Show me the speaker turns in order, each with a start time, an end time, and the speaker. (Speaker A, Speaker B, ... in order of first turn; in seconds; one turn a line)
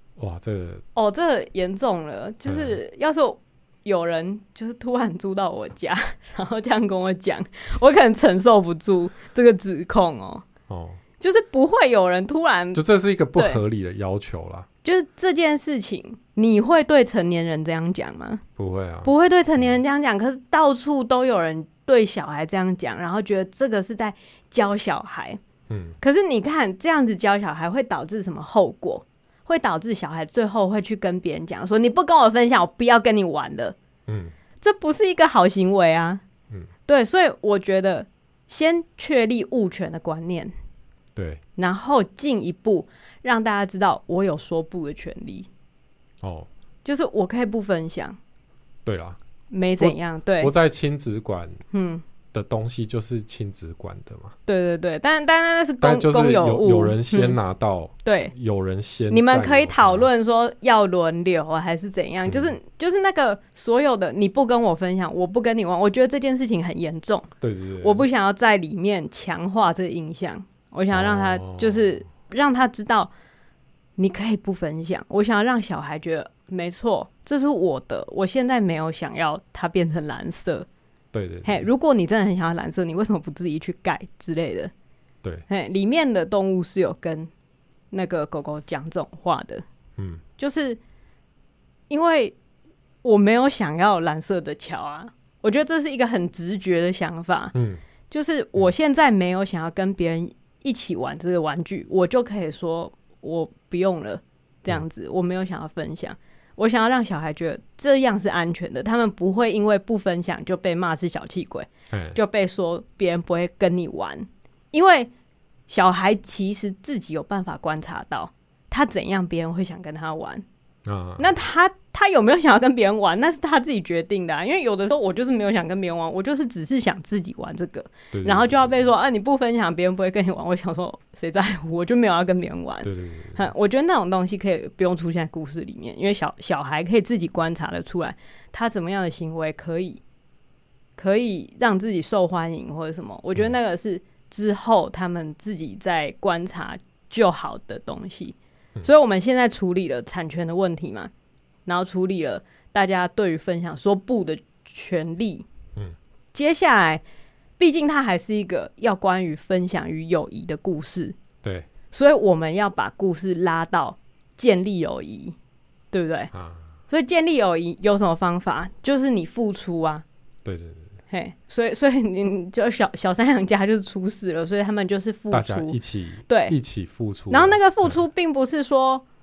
Speaker A: 0.2-0.8
Speaker B: 0.9-10.5
Speaker A: 2.5-2.8
Speaker A: 10.7-11.0
Speaker B: 11.2-12.8
Speaker A: 12.7-14.7
Speaker B: 13.4-13.6
Speaker B: 14.8-18.4
Speaker A: 18.6-19.8
Speaker B: 19.1-25.4
Speaker A: 25.7-26.0
Speaker B: 26.0-33.8
Speaker A: 34.1-34.3
Speaker B: 34.6-36.2
Speaker B: 36.9-40.5
Speaker A: 41.1-41.4
Speaker B: 41.6-45.5
Speaker A: 46.2-46.5
Speaker B: 46.9-48.2
Speaker A: 48.9-49.2
Speaker B: 49.5-50.5
Speaker A: 49.8-51.6
Speaker B: 51.7-52.0
Speaker A: 52.3-54.4
Speaker B: 54.5-57.4
Speaker A: 55.8-60.1
Speaker B: 58.0-58.3
Speaker B: 59.1-67.3
Speaker A: 62.2-62.5
Speaker A: 67.4-68.1
Speaker B: 67.8-73.1
Speaker A: 70.9-71.9
Speaker B: 74.0-80.7
Speaker A: 81.1-81.7
Speaker B: 81.4-84.7
Speaker B: 85.5-87.3
Speaker B: 87.9-89.6
Speaker A: 90.0-90.2
Speaker B: 90.4-90.8
Speaker B: 91.9-92.3
Speaker B: 93.0-97.5
Speaker A: 97.5-97.8
Speaker B: 98.1-115.1
Speaker A: 111.9-112.2
Speaker B: 115.7-120.4
Speaker A: 120.8-121.4
Speaker B: 121.2-140.0
Speaker A: 128.1-128.7
Speaker A: 132.8-133.5
Speaker B: 141.0-151.1
Speaker B: 151.7-155.4
Speaker B: 156.3-157.0
Speaker B: 157.6-161.1
Speaker A: 161.4-161.7
Speaker B: 161.9-165.4
Speaker B: 165.9-166.3
Speaker A: 166.3-166.6
Speaker B: 166.9-170.0
Speaker A: 170.4-170.9
Speaker B: 171.1-175.8
Speaker A: 175.3-178.0
Speaker B: 176.3-176.6
Speaker B: 177.3-179.0